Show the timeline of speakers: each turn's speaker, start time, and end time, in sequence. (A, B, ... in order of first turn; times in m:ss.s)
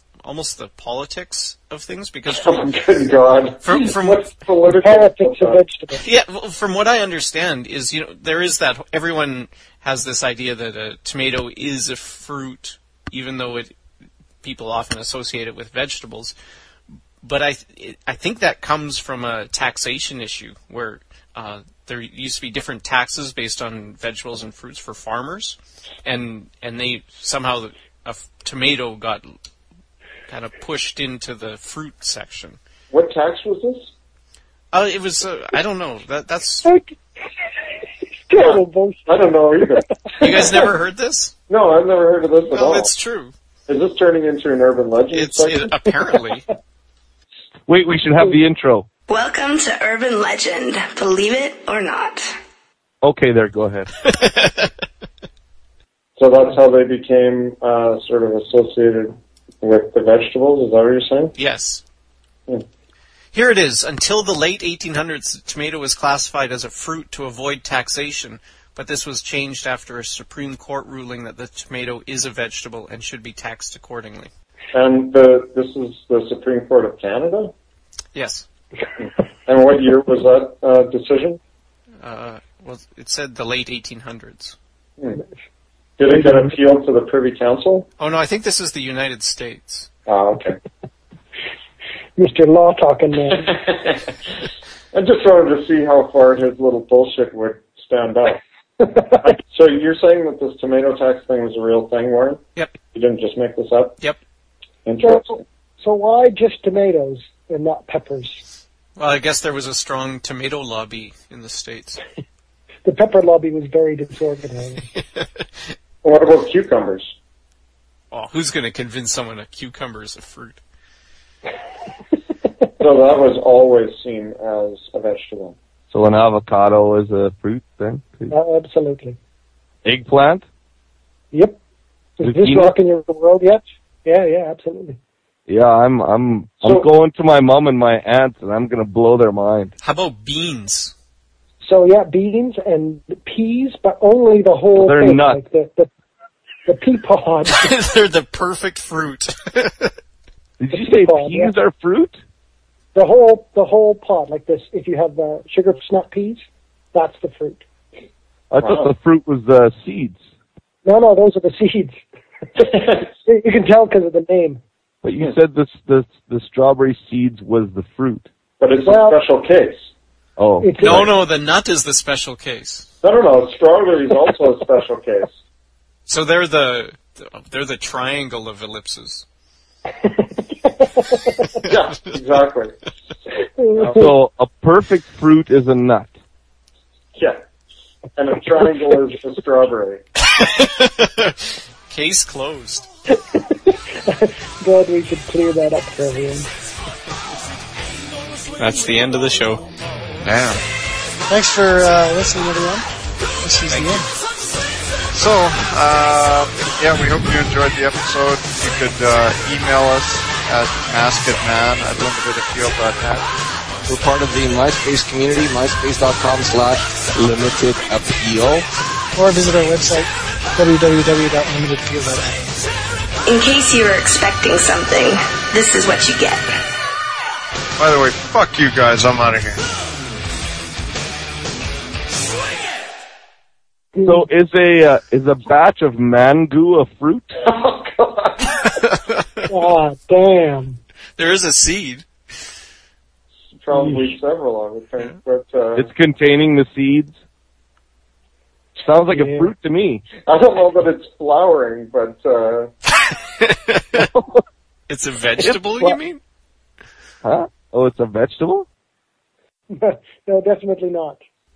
0:00.2-0:02.5 A
0:02.3-0:05.6 B
0:03.6-0:04.3 A
0:04.6-0:06.0 C
0:06.0-0:13.7 A
0:14.4-0:16.3 A
0:17.2-0:29.3 A
0:30.3-0:32.6 A
0:32.9-0:33.9 B
0:34.7-0:36.7 A
0:36.6-0:36.9 C
0:38.3-0:39.9 C
0:38.4-0:40.6 B
0:40.2-0:41.3 A
0:41.5-0:42.9 B
0:42.5-0:43.3 A
0:43.7-0:45.7 B
0:45.1-0:46.5 A
0:47.7-0:48.8 D
0:49.1-0:52.3 E
0:53.0-0:53.9 D
0:54.0-0:54.7 A
0:56.2-1:01.3 B
1:01.4-1:01.8 A
1:03.3-1:14.3 A
1:14.7-1:17.5 B
1:18.1-1:18.5 A
1:19.0-1:21.4 B
1:22.0-1:24.6 A
1:25.0-1:25.2 B
1:26.0-1:27.9 B
1:28.0-1:29.9 A
1:30.1-1:30.6 B
1:32.2-1:33.6 C
1:33.5-1:34.0 B
1:34.9-1:38.4 B
1:39.2-1:42.4 B
1:42.9-1:44.0 B
1:44.8-1:45.4 B
1:45.0-1:48.4 C
1:49.0-1:52.0 A
1:52.8-1:54.9 C
1:56.0-1:57.1 B
1:58.1-2:00.6 A
2:02.8-2:05.6 B
2:05.9-2:08.3 D
2:08.3-2:09.2 C
2:09.8-2:10.4 D
2:11.3-2:11.6 C
2:12.2-2:15.0 C
2:12.2-2:12.7 D
2:15.5-2:19.7 D
2:19.8-2:20.9 A
2:21.6-2:25.9 C
2:24.8-2:25.4 D
2:26.7-2:27.5 C
2:27.5-2:29.9 A
2:30.6-2:32.2 D
2:30.7-2:31.5 C
2:32.9-2:37.7 C
2:38.5-2:40.2 D
2:38.6-2:38.9 B
2:40.8-2:42.0 C
2:42.5-2:44.6 C
2:45.0-2:48.3 D
2:48.6-2:49.9 B
2:48.8-2:49.2 C
2:50.4-2:51.1 D
2:50.6-2:51.1 C
2:50.8-2:52.9 A
2:53.0-2:55.3 B
2:56.0-2:59.2 A
3:00.2-3:01.4 C
3:01.6-3:02.8 B
3:03.6-3:04.1 C
3:03.9-3:06.1 D
3:08.2-3:10.0 B
3:10.3-3:11.3 A
3:11.9-3:12.9 A
3:13.1-3:16.5 C
3:18.6-3:19.7 A
3:20.2-3:20.6 F
3:21.3-3:22.8 G
3:23.4-3:24.0 G
3:23.7-3:24.0 A
3:25.1-3:33.2 F
3:33.8-3:38.7 H
3:39.2-3:42.1 C
3:41.9-3:42.3 G
3:43.3-3:46.5 E
3:47.8-3:49.6 F
3:54.0-3:54.2 C
3:54.0-3:57.3 D
3:57.4-3:58.5 B
3:58.8-3:59.5 A
3:59.5-4:00.8 C
4:01.2-4:02.1 A
4:03.5-4:05.9 B
4:03.7-4:04.1 C
4:05.8-4:07.2 D
4:08.8-4:10.0 D
4:09.1-4:09.5 C
4:10.3-4:12.7 B
4:13.1-4:14.1 A
4:13.9-4:14.4 D
4:14.9-4:16.2 A
4:15.4-4:16.0 D
4:17.2-4:18.6 D
4:19.7-4:21.2 C